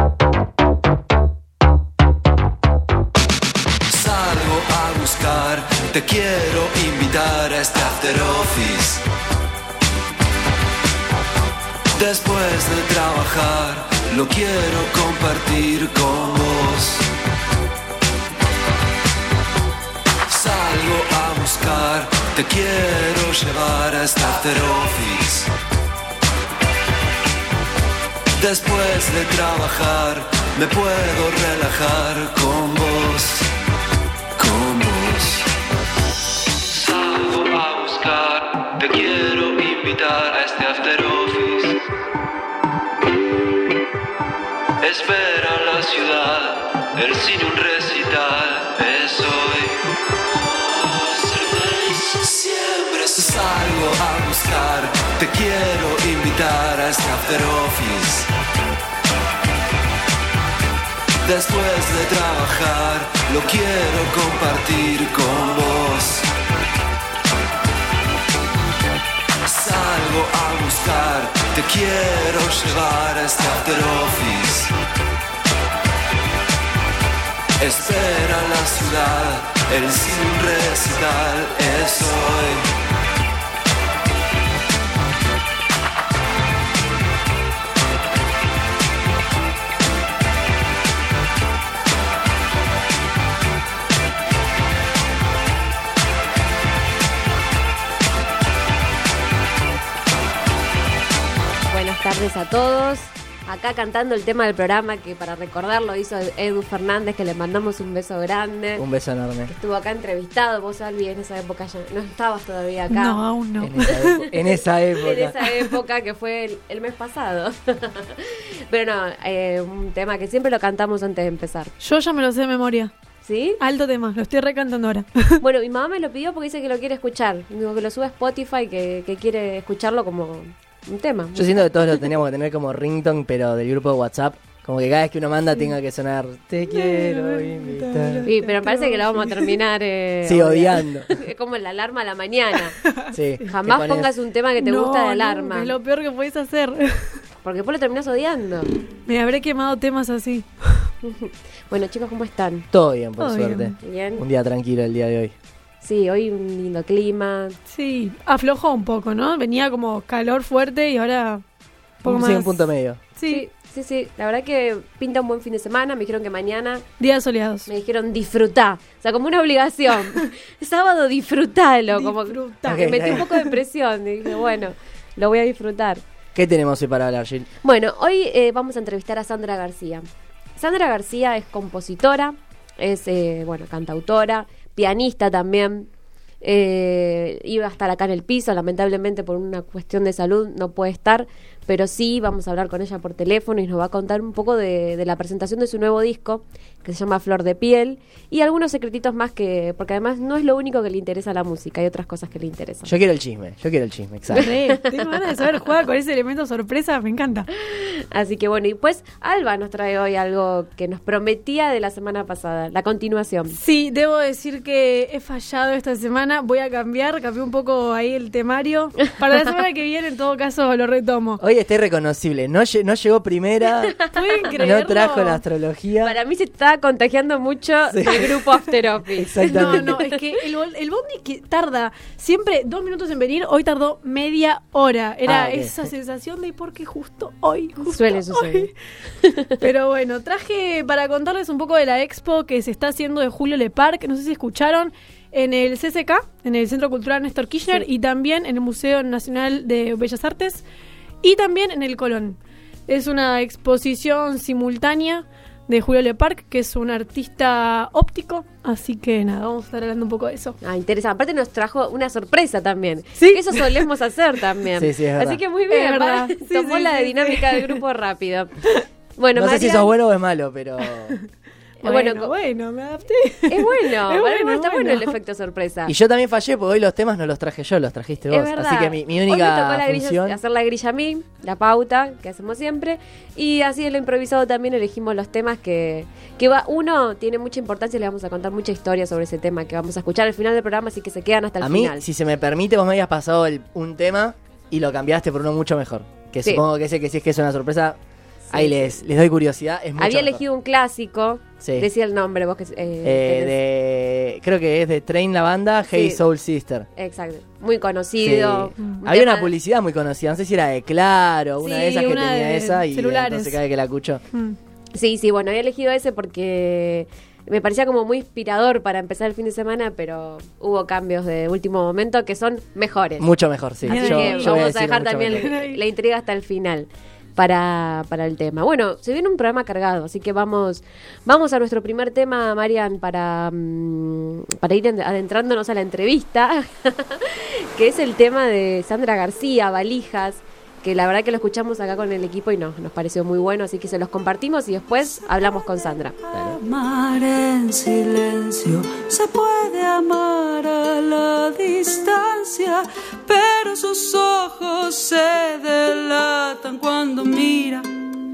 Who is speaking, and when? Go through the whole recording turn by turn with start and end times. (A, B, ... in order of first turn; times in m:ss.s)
0:03.9-0:09.0 A
0:12.0-0:17.1 A
0:20.3-0:25.5 A
0:28.4-0:33.5 A
0:34.4-0:35.5 A
0:36.7-0:41.8 A
0:44.8-0:49.9 A
0:50.5-0:58.3 A
1:01.2-1:06.3 A
1:09.4-1:14.7 A
1:17.6-1:22.7 A
1:41.7-1:48.8 B
1:48.8-1:49.5 C
1:49.5-1:53.3 B
1:52.9-1:54.3 D
1:53.6-1:55.4 C
1:53.9-2:01.7 B
2:01.8-2:02.9 D
2:03.2-2:03.6 B
2:03.6-2:05.4 D
2:05.4-2:11.7 B
2:11.4-2:18.3 C
2:16.7-2:19.6 D
2:18.2-2:22.8 B
2:20.2-2:21.1 C
2:22.9-2:23.2 D
2:23.1-2:24.1 C
2:23.4-2:25.8 B
2:24.6-2:27.2 D
2:27.4-2:28.7 B
2:29.1-2:30.9 D
2:31.0-2:32.7 B
2:32.7-2:35.3 C
2:33.2-2:33.8 D
2:33.8-2:34.2 B
2:35.8-2:37.6 B
2:37.7-2:41.4 D
2:42.0-2:43.0 C
2:42.0-2:43.4 D
2:43.3-2:46.8 B
2:47.0-2:47.7 D
2:47.7-2:56.0 B
2:51.9-2:53.6 D
2:52.7-2:53.3 C
2:56.4-2:57.5 C
2:57.6-3:05.9 B
3:06.4-3:22.9 B
3:22.9-3:24.5 C
3:24.3-3:25.0 B
3:24.4-3:27.5 D
3:27.6-3:33.6 B
3:33.5-3:41.4 D
3:41.4-3:44.0 C
3:44.1-3:45.4 D
3:44.6-3:46.1 C
3:46.0-3:50.4 B
3:47.9-3:48.3 C
3:49.2-3:50.0 C
3:49.5-3:58.7 D
3:55.3-3:55.9 C
3:57.8-3:59.6 B
3:59.6-4:10.6 D
4:11.2-4:20.6 D
4:20.6-4:28.6 B
4:23.2-4:23.9 D
4:24.8-4:25.4 C
4:25.7-4:27.8 D
4:29.2-4:29.9 B
4:29.4-4:31.2 C
4:31.8-4:32.3 B
4:31.8-4:35.2 D
4:33.5-4:35.9 B
4:35.9-4:40.4 C
4:38.3-4:52.0 B
4:51.6-4:58.0 C
4:58.5-4:59.0 B
4:58.5-5:00.4 C
5:00.0-5:03.6 B
5:01.6-5:01.9 C
5:03.0-5:06.9 C
5:05.9-5:06.2 B
5:07.0-5:09.5 B
5:08.2-5:14.2 C
5:11.6-5:12.1 B
5:12.0-5:13.6 D
5:14.9-5:23.3 B
5:23.2-5:25.5 C
5:23.8-5:46.2 B
5:23.9-5:24.8 D
5:25.3-5:25.8 D
5:46.3-5:57.9 E
5:46.3-5:46.6 C